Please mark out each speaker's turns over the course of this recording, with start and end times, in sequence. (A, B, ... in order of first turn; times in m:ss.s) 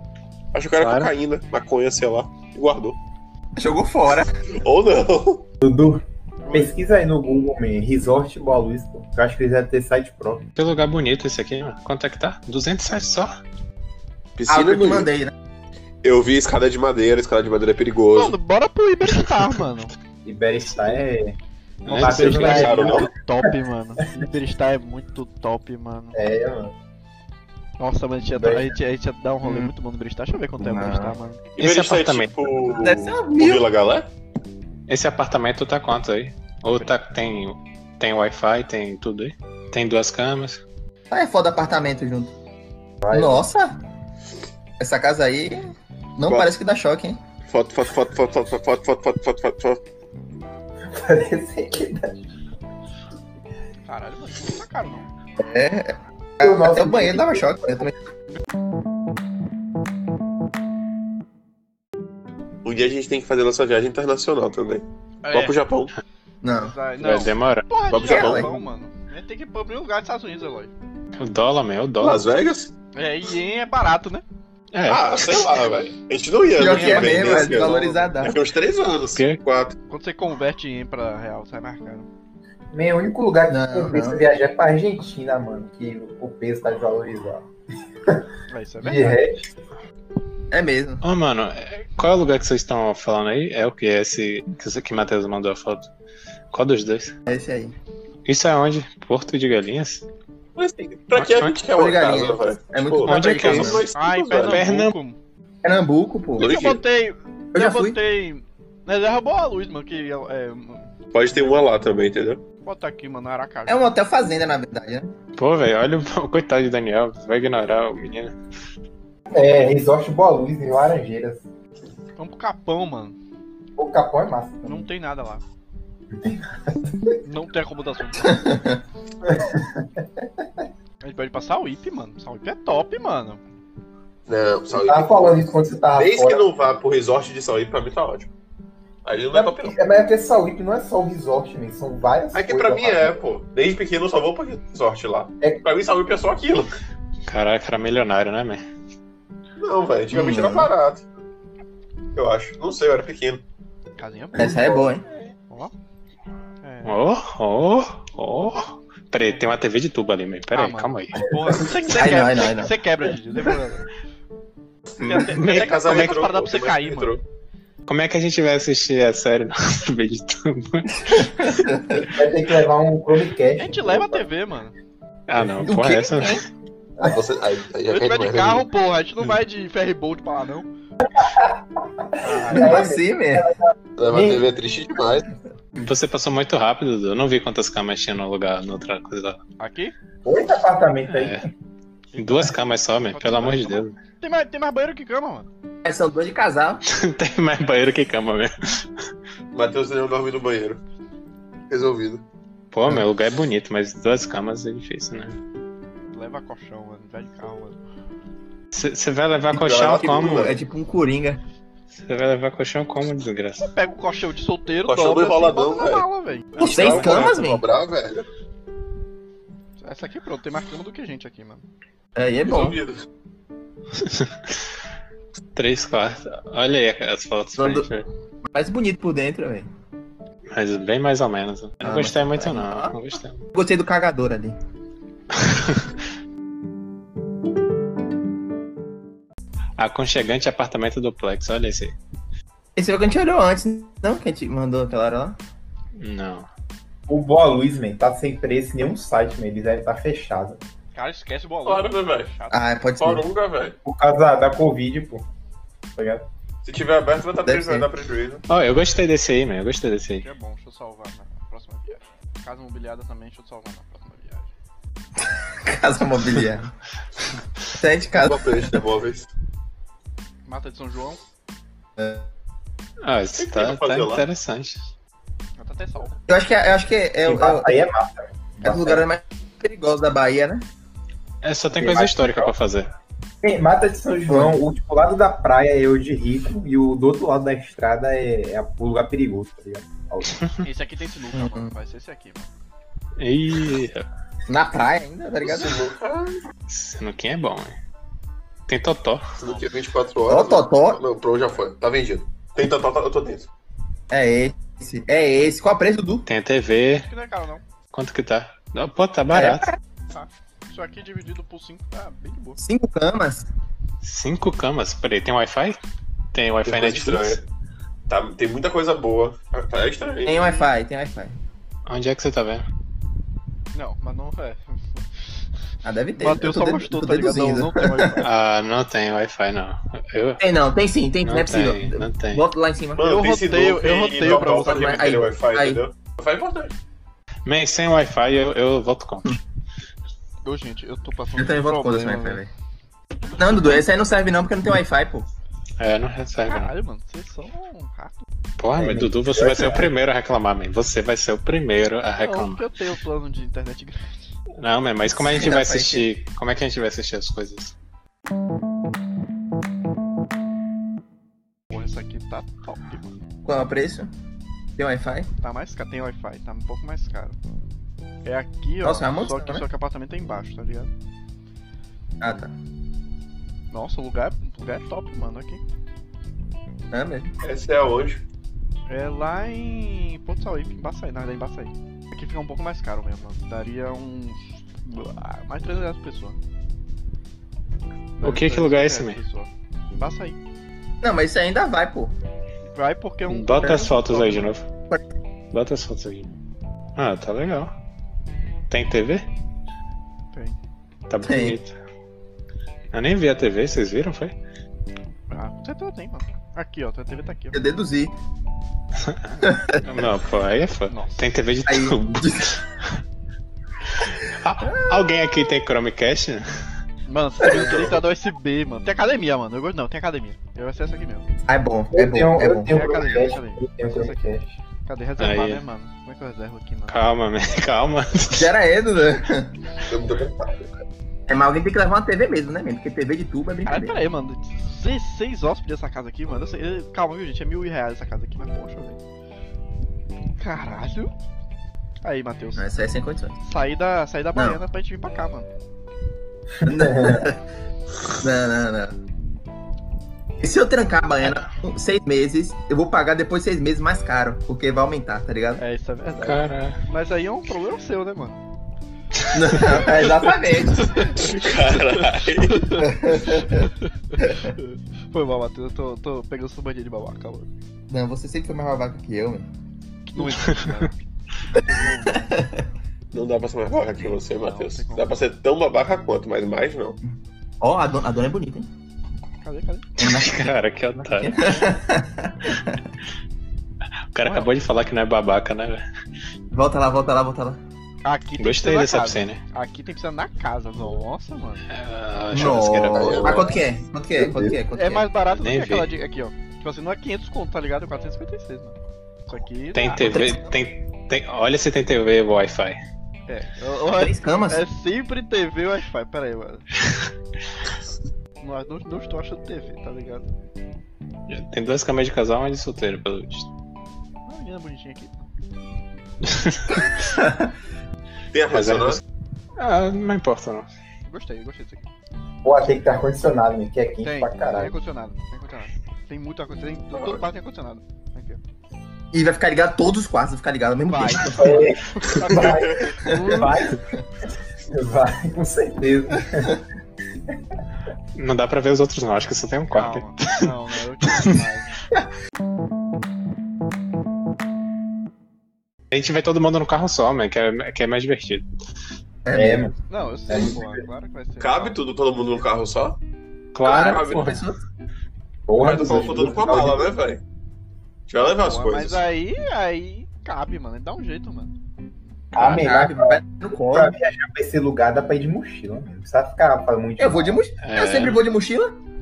0:00.5-0:03.0 A
0:00.8-0:01.1 B
0:03.6-0:04.6 C
0:04.6-0:05.5 A
0:05.6-0:10.4 D
0:06.4-0:06.7 E
0:10.6-0:13.4 B
0:14.4-0:15.1 A
0:14.5-0:15.3 C
0:16.0-0:18.4 A
0:18.1-0:19.9 E
0:20.2-0:21.4 D
0:21.9-0:22.8 B
0:21.9-0:26.2 E
0:21.9-0:23.1 D
0:22.0-0:23.1 A
0:26.1-0:26.7 D
0:27.8-0:31.4 E
0:28.4-0:28.8 D
0:29.4-0:29.7 C
0:30.6-0:31.2 C
0:31.6-0:34.1 A
0:31.6-0:32.4 B
0:32.6-0:33.7 C
0:34.9-0:40.6 B
0:41.1-0:42.3 C
0:43.0-0:43.5 D
0:43.1-0:43.8 C
0:44.8-0:47.2 C
0:47.4-0:49.8 A
0:50.9-0:52.2 D
0:53.9-0:55.1 E
0:55.4-0:58.0 C
0:56.4-0:57.5 D
1:02.6-1:05.9 A
1:05.2-1:05.6 E
1:06.4-1:06.8 C
1:06.5-1:10.7 E
1:07.0-1:07.7 B
1:07.9-1:08.5 A
1:07.9-1:08.5 C
1:11.2-1:12.4 B
1:12.0-1:12.7 A
1:13.0-1:14.2 E
1:14.7-1:15.5 B
1:14.9-1:19.8 A
1:16.5-1:18.4 C
1:16.7-1:18.1 E
1:19.9-1:22.1 E
1:22.7-1:27.5 D
1:23.5-1:24.2 C
1:28.5-1:29.2 E
1:28.8-1:29.5 D
1:30.5-1:31.0 C
1:31.0-1:35.9 B
1:36.5-1:37.2 B
1:37.3-1:37.8 C
1:38.3-1:40.0 B
1:40.6-1:44.7 A
1:41.2-1:41.6 B
1:41.7-1:43.9 C
1:43.1-1:43.9 B
1:44.0-1:45.2 E
1:44.4-1:44.9 B
1:45.6-1:46.6 C
1:46.4-1:46.8 A
1:46.4-1:50.9 E
1:47.5-1:48.0 C
1:51.1-1:52.4 A
1:52.6-1:53.9 E
1:53.7-1:55.1 C
1:55.4-1:58.4 B
1:59.3-2:01.5 D
2:02.2-2:03.2 E
2:03.8-2:04.9 D
2:04.6-2:05.4 E
2:06.2-2:06.8 D
2:07.2-2:08.4 E
2:08.2-2:08.8 C
2:09.2-2:10.0 D
2:11.0-2:13.4 E
2:14.3-2:15.4 A
2:14.7-2:16.5 D
2:15.9-2:18.3 A
2:19.0-2:19.8 A
2:19.3-2:23.2 D
2:22.3-2:26.7 A
2:27.3-2:28.6 B
2:29.6-2:31.1 A
2:30.1-2:30.7 C
2:32.2-2:33.4 A
2:34.0-2:34.8 E
2:34.4-2:35.0 C
2:34.4-2:34.9 D
2:36.6-2:37.0 E
2:36.8-2:41.3 B
2:40.5-2:43.9 E
2:41.6-2:42.7 C
2:45.0-2:47.2 E
2:45.0-2:47.2 A
2:45.3-2:46.2 B
2:47.9-2:51.6 B
2:51.1-2:52.0 C
2:52.0-2:54.3 D
2:53.6-2:54.8 E
2:55.3-2:56.4 B
2:55.6-2:56.4 C
2:57.0-2:58.7 A
2:57.9-3:00.7 E
3:02.0-3:04.4 D
3:02.2-3:02.8 E
3:02.5-3:03.5 C
3:04.0-3:05.3 A
3:05.8-3:09.4 B
3:09.6-3:10.0 E
3:10.2-3:11.5 D
3:11.1-3:11.4 B
3:12.1-3:12.4 E
3:12.2-3:14.0 B
3:13.1-3:15.5 E
3:15.8-3:16.8 C
3:16.9-3:18.8 B
3:19.5-3:20.8 A
3:21.7-3:22.2 A
3:22.7-3:25.4 B
3:26.1-3:27.8 E
3:28.7-3:30.6 B
3:29.5-3:30.6 A
3:30.0-3:31.4 C
3:31.9-3:33.7 B
3:33.6-3:37.0 E
3:34.9-3:36.1 A
3:36.6-3:38.3 A
3:36.6-3:37.3 B
3:36.6-3:37.7 C
3:39.8-3:41.6 E
3:42.2-3:42.8 C
3:42.4-3:43.1 A
3:44.0-3:44.6 B
3:45.6-3:48.1 B
3:47.6-3:47.9 C
3:48.5-3:49.7 C
3:50.5-3:53.4 B
3:51.8-3:53.0 C
3:53.5-3:54.6 C
3:55.3-3:56.0 B
3:59.8-4:02.0 B
4:02.8-4:05.4 C
4:06.0-4:06.5 B
4:07.1-4:10.6 D
4:10.9-4:12.7 E
4:11.6-4:12.3 A
4:12.5-4:13.3 C
4:13.0-4:13.8 A
4:13.8-4:15.3 D
4:16.0-4:16.3 D
4:16.6-4:18.4 A
4:17.4-4:17.9 C
4:18.5-4:20.3 B
4:20.2-4:24.5 E
4:25.2-4:26.7 C
4:27.7-4:28.8 C
4:28.2-4:29.3 A
4:30.5-4:31.2 E
4:32.0-4:32.3 C
4:33.0-4:34.9 B
4:33.4-4:34.3 A
4:35.6-4:36.2 E
4:36.3-4:37.7 C
4:37.2-4:39.1 D
4:38.6-4:40.7 C
4:41.4-4:42.9 B
4:41.8-4:42.5 D
4:43.4-4:50.4 D
4:44.3-4:44.6 C
4:50.6-4:52.5 E
4:51.3-4:51.7 C
4:53.2-4:54.1 B
4:54.5-4:55.9 C
4:55.4-4:56.4 A
4:56.7-4:57.8 B
4:58.7-4:59.3 B
4:59.4-5:03.5 A
5:00.3-5:01.0 C
5:04.1-5:06.3 C
5:06.3-5:07.1 B
5:07.0-5:07.6 E
5:07.9-5:09.7 B
5:09.3-5:09.8 C
5:10.1-5:12.6 E
5:12.6-5:13.5 C
5:14.0-5:15.8 B
5:16.3-5:17.4 B
5:16.6-5:17.4 A
5:18.1-5:20.7 A
5:20.2-5:21.4 C
5:21.9-5:22.7 B
5:23.7-5:25.0 E
5:25.8-5:28.2 C
5:26.2-5:28.3 E
5:28.2-5:30.4 B
5:30.4-5:33.1 C
5:31.2-5:32.4 B
5:33.0-5:36.8 A
5:33.0-5:35.1 E
5:34.4-5:35.8 C
5:37.5-5:39.4 B
5:40.4-5:42.4 E
5:41.4-5:42.5 C
5:43.4-5:45.3 C
5:45.8-5:46.7 B
5:46.5-5:48.2 E
5:48.6-5:52.6 B
5:48.8-5:49.9 D
5:52.2-5:54.1 E
5:54.6-5:57.7 B
5:55.1-5:56.1 C
6:01.7-6:03.2 E
6:03.4-6:04.1 C
6:04.8-6:05.3 C
6:05.4-6:07.4 E
6:08.2-6:10.9 E
6:08.8-6:09.7 C
6:12.2-6:12.5 C
6:13.7-6:15.6 E
6:16.9-6:17.4 C
6:17.4-6:18.2 A
6:18.9-6:26.4 E
6:28.2-6:30.4 E
6:28.2-6:29.2 B
6:31.0-6:32.2 C
6:32.7-6:34.5 E
6:33.3-6:34.6 B
6:33.6-6:33.9 C
6:35.5-6:36.3 B
6:37.0-6:37.7 B
6:38.7-6:39.3 B
6:41.1-6:41.8 B
6:41.2-6:41.6 C
6:42.9-6:44.3 B
6:45.3-6:47.6 E
6:47.5-6:48.2 C
6:49.0-6:52.9 B
6:49.4-6:49.9 C
6:50.9-6:51.3 E
6:51.7-6:52.5 C
6:54.0-6:56.5 B
6:57.1-7:01.3 E
6:57.4-6:57.8 C
7:01.5-7:03.0 C
7:01.9-7:04.6 D
7:02.6-7:04.2 E
7:04.8-7:07.0 E
7:05.2-7:05.6 B
7:06.9-7:08.5 B
7:08.3-7:09.6 C
7:09.9-7:10.6 A
7:11.3-7:14.0 C
7:13.6-7:19.0 E
7:20.4-7:21.1 E
7:22.0-7:22.7 E
7:22.6-7:23.4 C
7:23.4-7:25.5 E
7:26.6-7:27.3 D
7:26.6-7:27.4 C
7:28.1-7:29.0 C
7:30.4-7:35.6 C
7:35.6-7:38.4 E
7:36.2-7:36.8 B
7:39.3-7:41.1 C
7:39.6-7:39.8 E
7:40.8-7:47.5 E
7:41.2-7:42.8 A
7:42.8-7:43.7 C
7:47.9-7:49.5 C
7:50.1-7:52.5 E
7:50.4-7:50.7 B
7:52.3-7:52.6 C
7:53.1-7:57.0 A
7:54.0-7:55.2 E
7:57.1-7:58.7 C
7:59.4-8:00.1 E
8:00.0-8:00.5 C
8:00.0-8:01.6 B
8:01.0-8:02.8 C
8:04.1-8:05.8 B
8:04.2-8:04.5 E
8:06.5-8:07.6 C
8:08.0-8:11.6 E
8:08.4-8:09.4 B
8:11.7-8:13.6 B
8:12.3-8:15.1 C
8:12.9-8:13.6 A
8:14.2-8:14.6 D
8:14.7-8:18.8 E
8:15.4-8:15.9 B
8:19.3-8:20.4 E
8:19.8-8:22.8 B
8:20.0-8:20.5 C
8:23.3-8:26.7 E
8:24.0-8:24.6 C
8:28.4-8:30.3 E
8:31.3-8:33.5 B
8:34.3-8:35.3 E
8:36.3-8:36.7 B
8:36.7-8:37.5 C
8:38.3-8:39.0 A
8:38.5-8:39.0 B
8:39.6-8:40.7 B
8:41.1-8:41.9 E
8:42.4-8:44.7 D
8:44.0-8:48.4 E
8:46.9-8:47.3 A
8:49.1-8:51.7 C
8:50.9-8:53.7 E
8:51.3-8:53.8 D
8:52.4-8:53.0 A
8:53.0-8:54.0 C
8:54.7-8:56.6 D
8:58.2-9:00.5 B
8:59.7-9:01.9 E
9:05.9-9:08.5 B
9:09.2-9:09.7 C
9:09.3-9:09.7 D
9:09.9-9:11.8 E
9:10.3-9:10.8 D
9:11.4-9:13.0 A
9:13.5-9:14.4 B
9:13.6-9:14.6 C
9:13.8-9:14.3 A
9:15.5-9:16.9 D
9:15.6-9:17.2 A
9:18.1-9:19.0 A
9:18.2-9:21.5 E
9:22.4-9:23.9 C
9:22.4-9:27.4 D
9:27.0-9:28.8 C
9:27.6-9:28.2 B